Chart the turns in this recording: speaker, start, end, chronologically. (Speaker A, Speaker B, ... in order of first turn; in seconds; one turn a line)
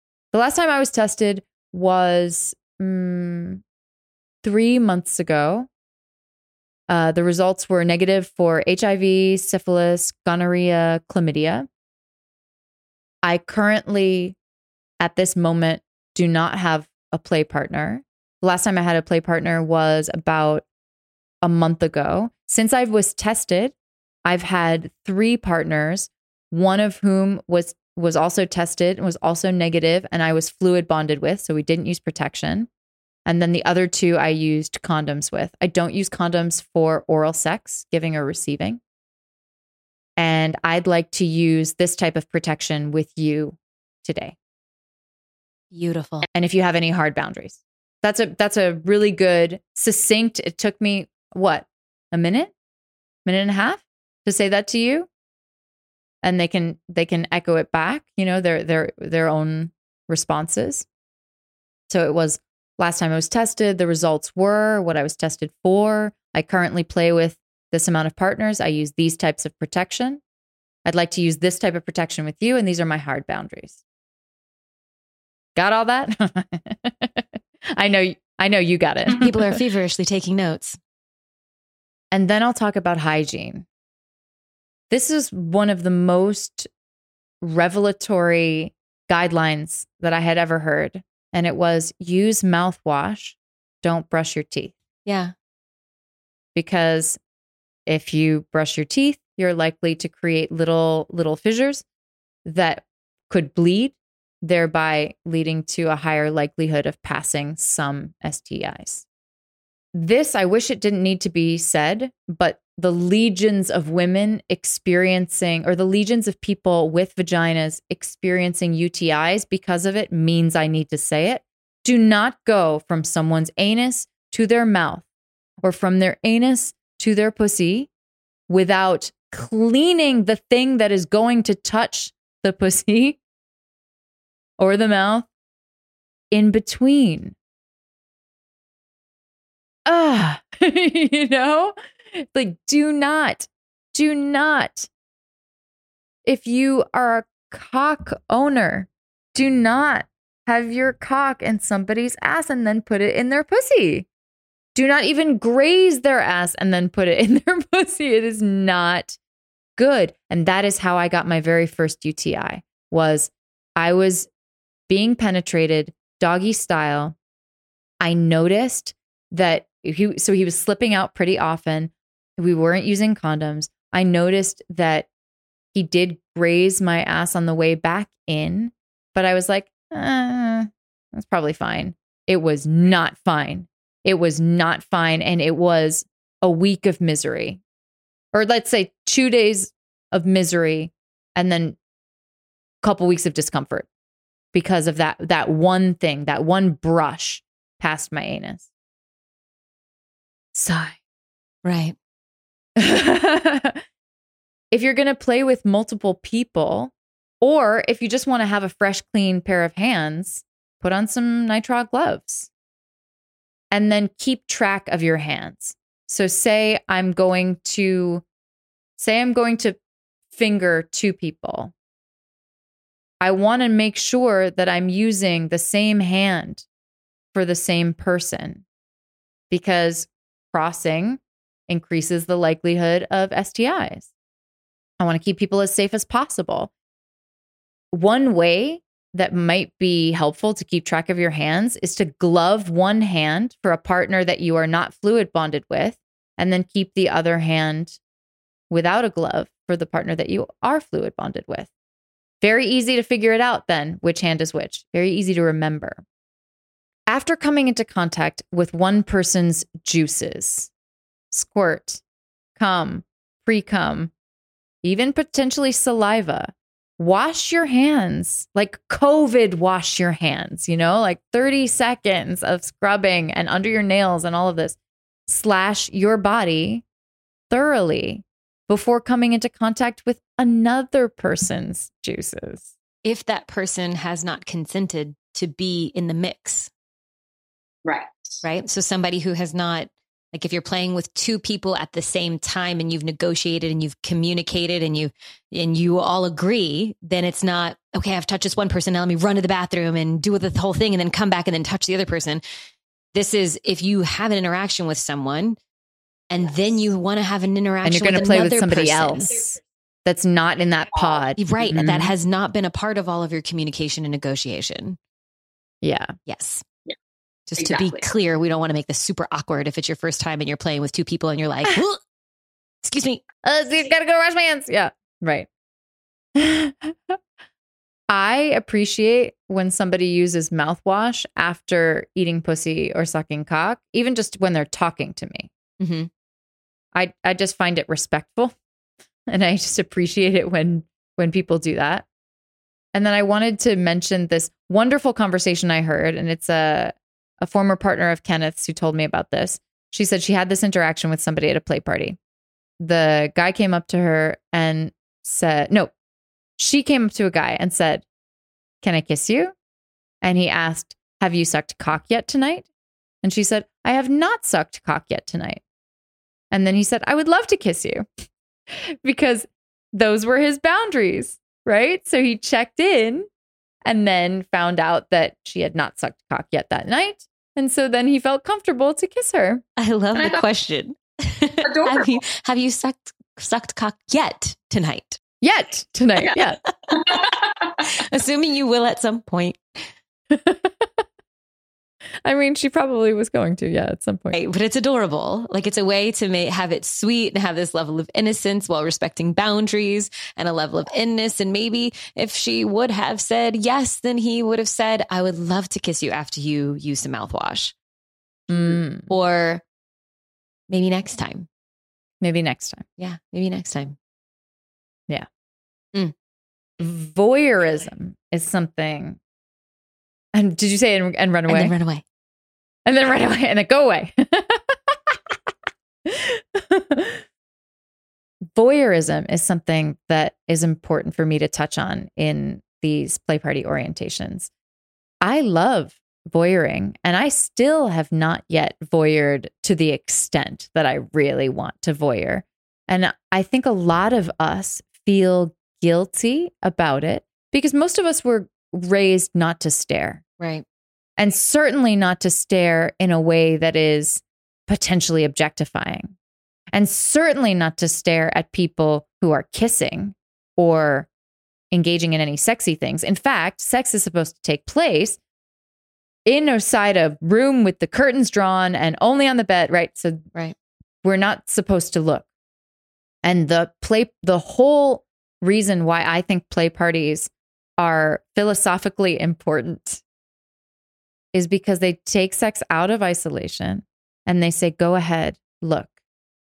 Speaker A: 0.3-3.6
Speaker A: 4.4-5.7
Speaker A: 6.9-11.7
Speaker A: 13.2-14.4
Speaker A: 15.0-20.6
Speaker A: 21.4-32.7
Speaker A: 33.2-38.8
Speaker A: 40.2-44.4
Speaker B: 45.7-46.3
Speaker A: 46.3-52.5
Speaker A: 53.2-55.1
Speaker A: 56.2-60.9
Speaker A: 61.9-70.2
Speaker A: 70.8-73.8
Speaker A: 75.5-79.6
Speaker B: 79.1-80.8
Speaker A: 82.1-83.7
Speaker A: 84.9-86.7
Speaker A: 87.4-94.7
Speaker B: 95.0-95.3
Speaker A: 96.5-97.2
Speaker A: 97.8-101.8
Speaker A: 102.4-109.0
Speaker A: 109.9-125.0
Speaker A: 125.6-127.9
Speaker A: 128.5-133.2
Speaker A: 134.6-135.3
Speaker A: 136.3-137.3
Speaker A: 139.8-144.9
Speaker A: 146.2-154.1
Speaker A: 154.7-159.2
Speaker A: 159.8-164.3
Speaker A: 164.9-167.2
Speaker A: 168.0-175.1
Speaker A: 175.7-187.6
Speaker A: 188.3-191.8
Speaker A: 192.8-193.9
Speaker A: 194.5-198.7
Speaker A: 200.5-201.0
Speaker B: 201.6-201.9
Speaker A: 202.8-203.8
Speaker A: 204.7-212.5
Speaker A: 213.7-218.2
Speaker A: 219.0-219.8
Speaker A: 220.3-221.7
Speaker A: 223.2-226.7
Speaker A: 227.3-228.6
Speaker A: 229.5-234.1
Speaker A: 235.0-236.7
Speaker A: 237.9-248.0
Speaker A: 248.7-251.7
Speaker A: 252.4-256.0
Speaker A: 257.1-260.7
Speaker A: 261.3-262.0
Speaker A: 262.6-264.1
Speaker A: 264.8-276.8
Speaker A: 277.5-282.7
Speaker B: 283.0-286.7
Speaker C: 287.8-288.4
Speaker B: 288.4-302.4
Speaker B: 303.1-305.6
Speaker B: 306.3-309.3
Speaker A: 307.8-312.1
Speaker C: 310.9-311.2
Speaker B: 311.4-315.0
Speaker A: 315.8-316.1
Speaker B: 316.3-316.6
Speaker B: 317.5-322.0
Speaker C: 317.6-318.1
Speaker B: 322.8-323.2
Speaker A: 323.4-325.5
Speaker A: 326.4-327.2
Speaker A: 328.1-335.5
Speaker B: 335.8-336.1
Speaker A: 336.9-338.6
Speaker A: 339.3-342.1
Speaker A: 342.9-352.2
Speaker A: 352.8-355.9
Speaker A: 356.6-358.1
Speaker A: 358.8-359.5
Speaker A: 360.2-362.7
Speaker A: 363.2-365.6
Speaker A: 366.5-368.1
Speaker A: 368.7-373.3
Speaker A: 373.8-379.6
Speaker B: 379.8-385.2
Speaker C: 380.1-380.4
Speaker C: 381.6-382.2
Speaker A: 385.4-386.6
Speaker C: 386.2-387.8
Speaker B: 387.9-389.8
Speaker A: 390.3-391.0
Speaker A: 392.2-394.4
Speaker B: 394.3-407.7
Speaker A: 408.5-409.1
Speaker B: 408.5-409.6
Speaker B: 410.7-411.5
Speaker A: 412.2-412.8
Speaker B: 413.0-414.0
Speaker A: 416.8-419.2
Speaker A: 420.3-421.7
Speaker B: 421.5-422.0
Speaker A: 422.9-425.4
Speaker A: 426.0-427.2
Speaker A: 428.5-434.5
Speaker A: 435.2-450.2
Speaker B: 450.4-450.6
Speaker A: 451.2-456.1
Speaker A: 456.7-461.1
Speaker A: 461.7-465.2
Speaker A: 466.2-470.3
Speaker A: 471.0-472.3
Speaker A: 473.2-480.0
Speaker A: 481.3-485.9